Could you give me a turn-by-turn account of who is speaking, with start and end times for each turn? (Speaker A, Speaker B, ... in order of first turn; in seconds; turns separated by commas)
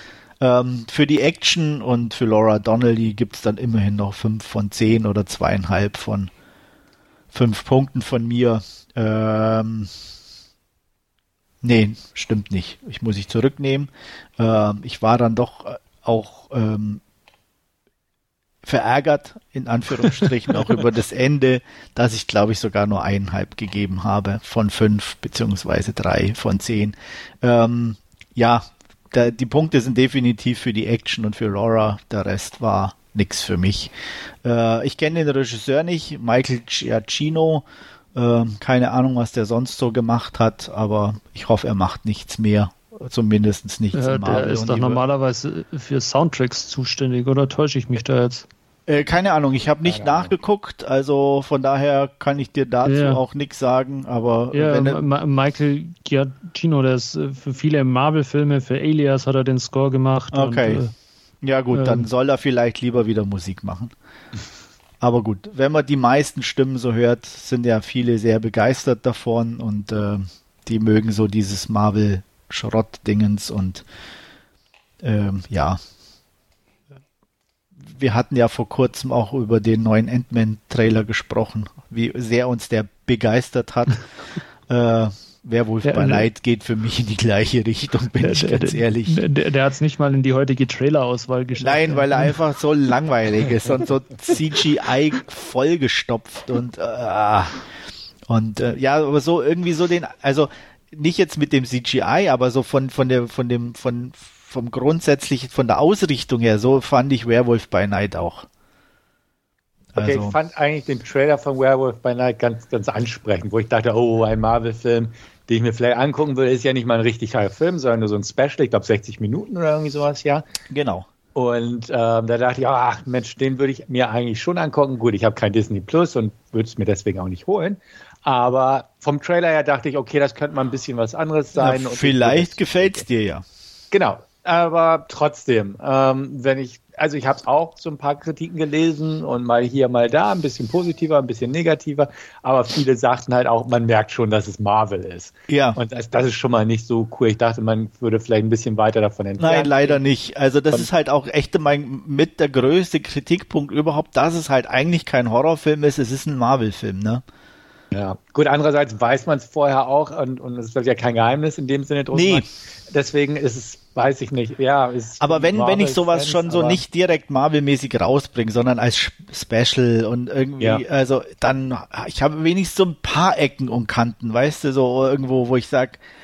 Speaker A: 0.4-6.3, Speaker A: 7.3-9.9, Speaker A: 11.6-17.0, Speaker A: 18.6-33.9, Speaker A: 34.4-45.0, Speaker B: 43.9-48.5, Speaker A: 48.9-55.0, Speaker C: 49.8-50.3, Speaker B: 52.8-53.2, Speaker B: 54.5-60.9, Speaker A: 60.3-60.8, Speaker A: 61.4-63.9, Speaker B: 61.7-62.1, Speaker A: 65.0-73.8, Speaker A: 75.0-75.8, Speaker A: 77.9-84.0, Speaker A: 84.7-89.2, Speaker B: 85.8-86.2, Speaker B: 88.2-92.4, Speaker A: 91.6-97.6, Speaker A: 98.3-108.5, Speaker A: 109.9-110.3, Speaker C: 110.0-120.4, Speaker A: 120.7-121.0, Speaker C: 121.3-133.0, Speaker A: 131.6-133.4, Speaker C: 133.9-150.0, Speaker A: 145.5-145.8, Speaker A: 149.4-157.2, Speaker C: 157.9-166.8, Speaker A: 162.1-162.4, Speaker A: 165.2-176.0